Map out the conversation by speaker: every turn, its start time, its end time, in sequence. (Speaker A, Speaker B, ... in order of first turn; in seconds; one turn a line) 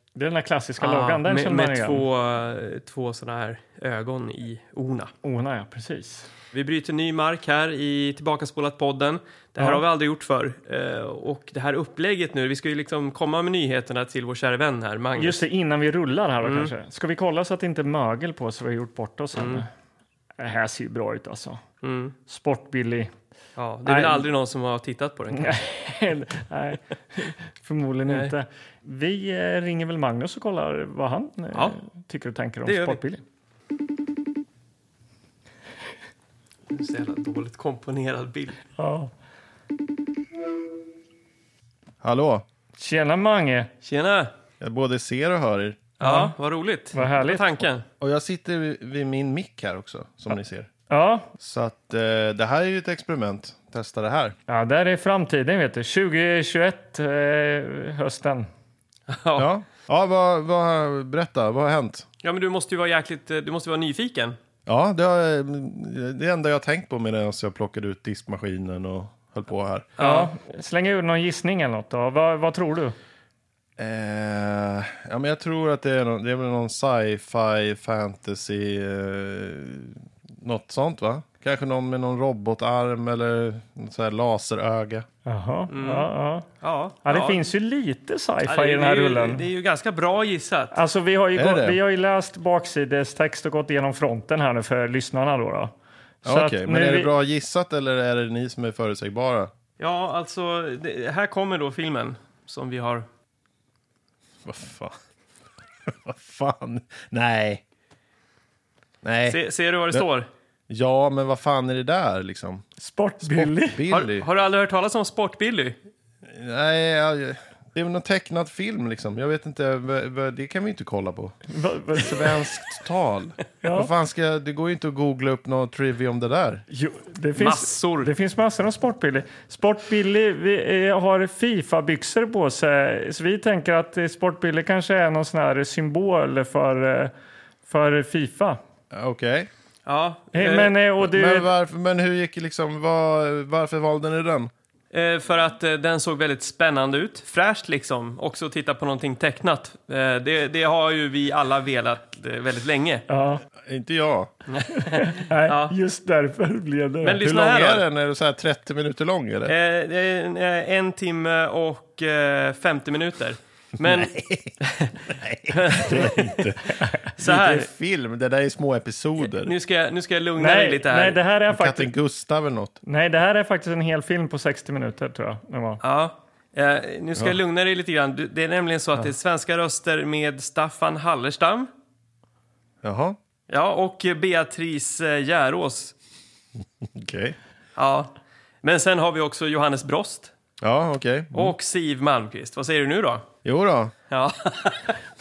Speaker A: 0.1-2.0
Speaker B: 0.8-5.1
Speaker A: 5.2-6.3
Speaker B: 6.5-15.4
Speaker A: 15.2-19.7
Speaker B: 16.4-16.7
Speaker B: 19.3-19.6
Speaker A: 20.4-21.6
Speaker B: 21.8-22.1
Speaker A: 22.3-23.1
Speaker B: 23.6-25.6
Speaker A: 23.9-24.2
Speaker A: 25.4-33.2
Speaker B: 28.1-28.3
Speaker B: 32.6-33.0
Speaker B: 36.7-38.6
Speaker A: 38.8-39.1
Speaker C: 42.0-42.4
Speaker A: 42.8-43.7
Speaker B: 43.8-44.3
Speaker C: 44.6-45.8
Speaker B: 46.0-47.8
Speaker A: 46.0-46.3
Speaker A: 46.9-47.6
Speaker C: 48.0-50.7
Speaker A: 50.9-51.3
Speaker C: 51.4-54.4
Speaker A: 54.5-58.5
Speaker B: 59.1-59.5
Speaker C: 59.4-62.0
Speaker B: 62.2-64.4
Speaker C: 64.7-69.9
Speaker B: 70.0-70.3
Speaker A: 70.0-73.0
Speaker C: 73.8-85.0
Speaker A: 85.2-86.5
Speaker B: 85.7-87.5
Speaker A: 87.0-89.4
Speaker B: 88.5-90.8
Speaker A: 90.7-95.7
Speaker C: 91.3-91.8
Speaker A: 96.2-97.1
Speaker C: 96.2-99.5
Speaker B: 99.8-103.0
Speaker C: 104.4-104.9
Speaker C: 105.9-107.6
Speaker C: 109.0-109.4
Speaker B: 109.3-110.3
Speaker C: 110.7-112.6
Speaker A: 112.8-113.8
Speaker C: 113.2-114.3
Speaker B: 113.9-115.8
Speaker C: 116.2-121.3
Speaker A: 121.5-122.3
Speaker C: 121.9-126.6
Speaker A: 123.6-123.9
Speaker A: 126.7-137.1
Speaker B: 127.4-128.1
Speaker A: 137.7-138.6
Speaker C: 138.9-139.5
Speaker B: 139.8-140.7
Speaker A: 140.3-141.5
Speaker C: 141.0-144.5
Speaker B: 144.9-153.0
Speaker A: 153.1-153.4
Speaker C: 153.7-154.3
Speaker B: 154.5-155.7
Speaker A: 154.8-157.2
Speaker B: 157.0-157.8
Speaker C: 157.2-159.5
Speaker B: 159.4-164.1
Speaker C: 163.8-169.5
Speaker B: 164.6-164.9
Speaker B: 165.5-166.4
Speaker B: 167.2-167.7
Speaker B: 169.3-171.2
Speaker A: 170.4-171.9
Speaker C: 171.5-172.8
Speaker A: 172.8-175.8
Speaker B: 175.8-181.7
Speaker C: 182.8-183.2
Speaker B: 183.5-185.9
Speaker C: 186.8-187.3
Speaker B: 187.8-188.1
Speaker B: 188.6-190.3
Speaker C: 190.6-191.5
Speaker B: 191.3-193.3
Speaker C: 193.4-193.9
Speaker B: 194.1-195.0